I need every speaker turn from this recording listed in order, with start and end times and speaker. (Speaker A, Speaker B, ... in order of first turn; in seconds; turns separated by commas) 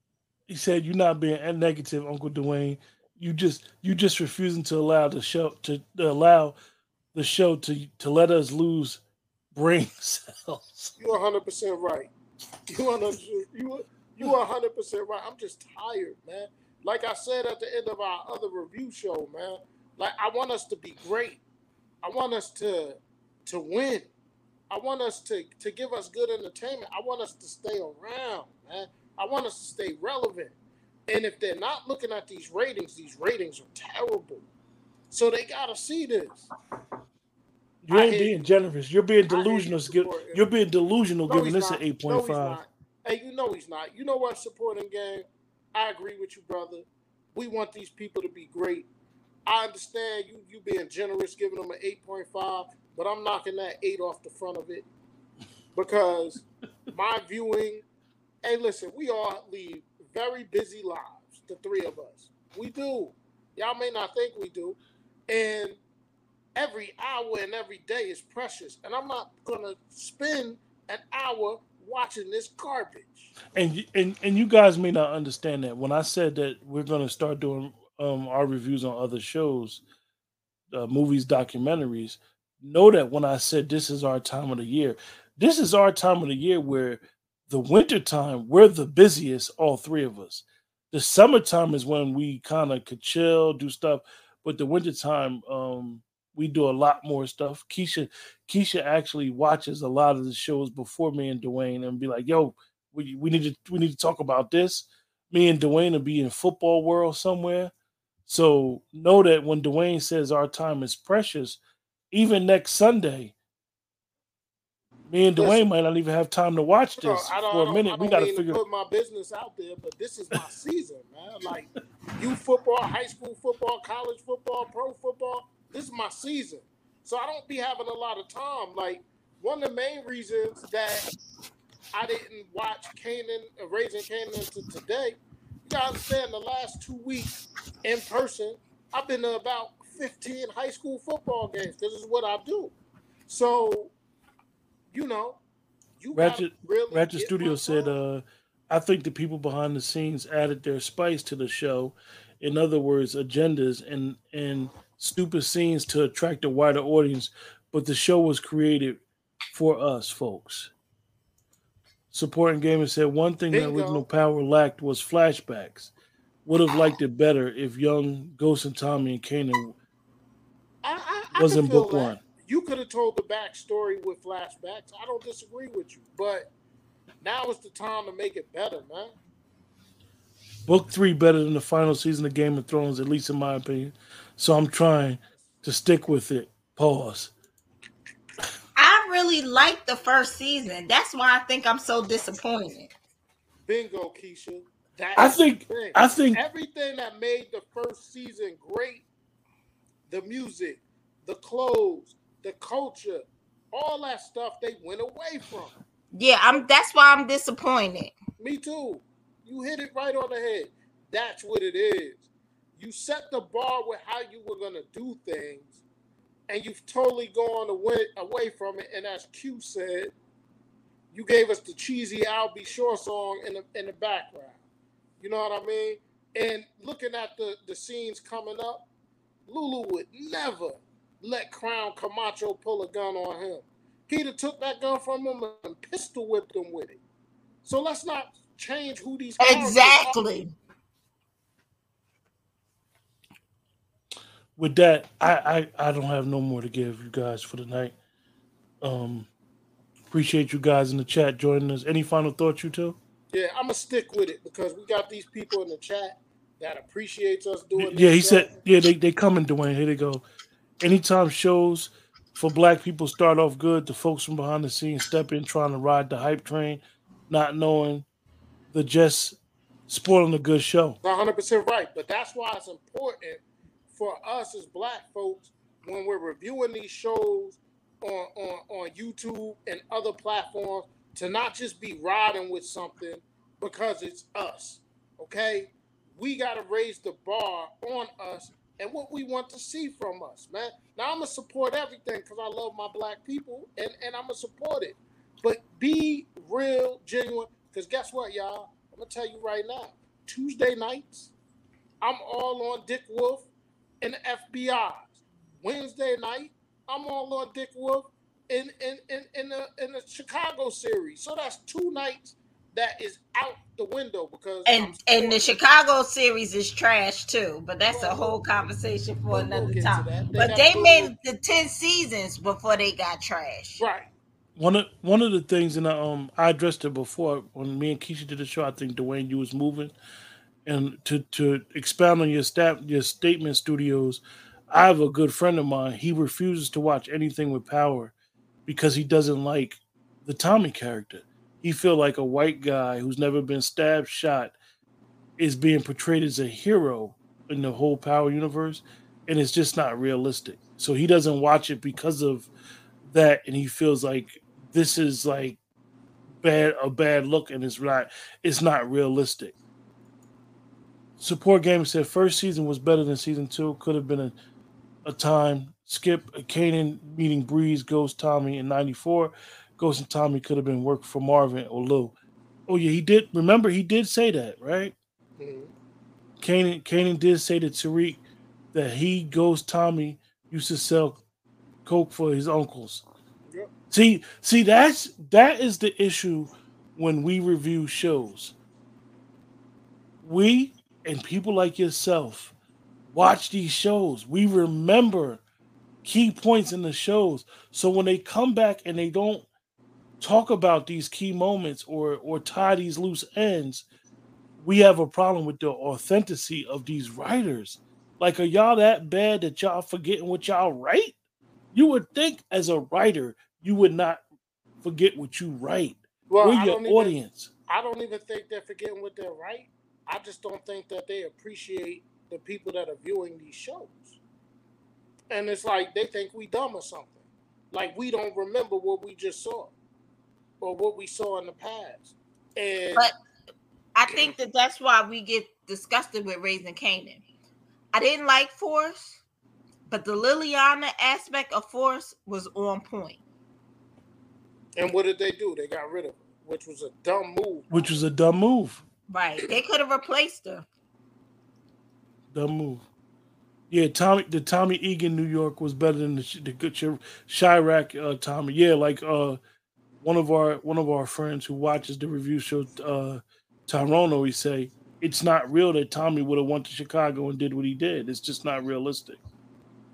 Speaker A: 0.5-6.5, Speaker A: 7.1-9.0, Speaker A: 9.5-10.9, Speaker B: 11.0-12.1, Speaker B: 12.7-21.4, Speaker B: 22.0-24.1, Speaker B: 24.7-30.5, Speaker B: 31.1-34.4, Speaker B: 35.1-36.5, Speaker A: 37.8-42.6, Speaker B: 37.9-38.4, Speaker B: 39.3-40.4, Speaker B: 41.3-48.9, Speaker B: 49.5-54.9, Speaker B: 55.7-57.8, Speaker B: 58.4-64.8, Speaker B: 65.3-65.8, Speaker B: 66.5-73.3, Speaker A: 73.5-79.8, Speaker A: 80.7-107.7, Speaker A: 108.3-111.6, Speaker A: 112.1-113.3, Speaker A: 115.1-118.6, Speaker B: 115.4-115.7, Speaker B: 117.0-131.1, Speaker B: 131.9-142.7, Speaker B: 143.3-143.9, Speaker B: 144.9-145.4, Speaker B: 146.0-147.9, Speaker A: 146.1-159.0, Speaker A: 159.5-160.7, Speaker A: 162.1-165.9, Speaker B: 163.5-164.0, Speaker A: 166.4-169.8, Speaker B: 170.8-176.5, Speaker A: 171.3-172.2, Speaker B: 177.2-179.1, Speaker A: 180.7-187.3, Speaker C: 188.8-192.9, Speaker B: 193.7-199.1, Speaker A: 195.2-196.4, Speaker B: 200.1-205.7, Speaker C: 206.1-208.1, Speaker B: 208.4-212.2, Speaker B: 212.8-215.8, Speaker B: 216.5-220.1, Speaker B: 221.1-224.6, Speaker B: 225.2-228.9, Speaker B: 229.5-237.0, Speaker B: 237.6-240.2, Speaker C: 239.4-240.5, Speaker A: 244.6-247.9, Speaker A: 248.8-249.3, Speaker A: 250.1-253.0, Speaker B: 253.3-258.5, Speaker A: 257.8-260.2, Speaker A: 260.8-268.1, Speaker A: 268.7-269.4, Speaker A: 269.9-271.0, Speaker B: 271.0-301.3, Speaker B: 302.0-303.5, Speaker B: 304.0-315.6, Speaker C: 314.6-323.8, Speaker B: 317.9-318.4, Speaker B: 319.3-321.1, Speaker B: 323.8-324.1, Speaker A: 324.6-329.9, Speaker A: 330.6-338.1, Speaker A: 338.7-344.5, Speaker A: 345.4-352.5, Speaker A: 353.1-355.6, Speaker A: 356.4-359.5, Speaker A: 361.2-364.3, Speaker A: 365.0-372.1, Speaker A: 372.7-374.9, Speaker B: 375.4-375.7, Speaker A: 376.4-378.2, Speaker A: 378.7-381.2, Speaker A: 381.9-383.0, Speaker A: 383.9-388.5, Speaker A: 390.2-392.5, Speaker A: 393.1-395.4, Speaker A: 396.0-399.4, Speaker A: 400.2-403.8, Speaker A: 404.6-411.1, Speaker A: 411.7-414.2, Speaker A: 414.8-417.5, Speaker B: 416.3-417.1, Speaker B: 417.7-424.2, Speaker B: 425.3-429.7, Speaker B: 430.6-433.1, Speaker C: 433.9-437.2, Speaker C: 437.9-439.2, Speaker C: 439.9-443.2, Speaker B: 444.8-447.8, Speaker A: 447.7-448.8, Speaker C: 449.1-450.7, Speaker A: 452.3-452.8, Speaker A: 453.7-459.4, Speaker A: 460.0-469.2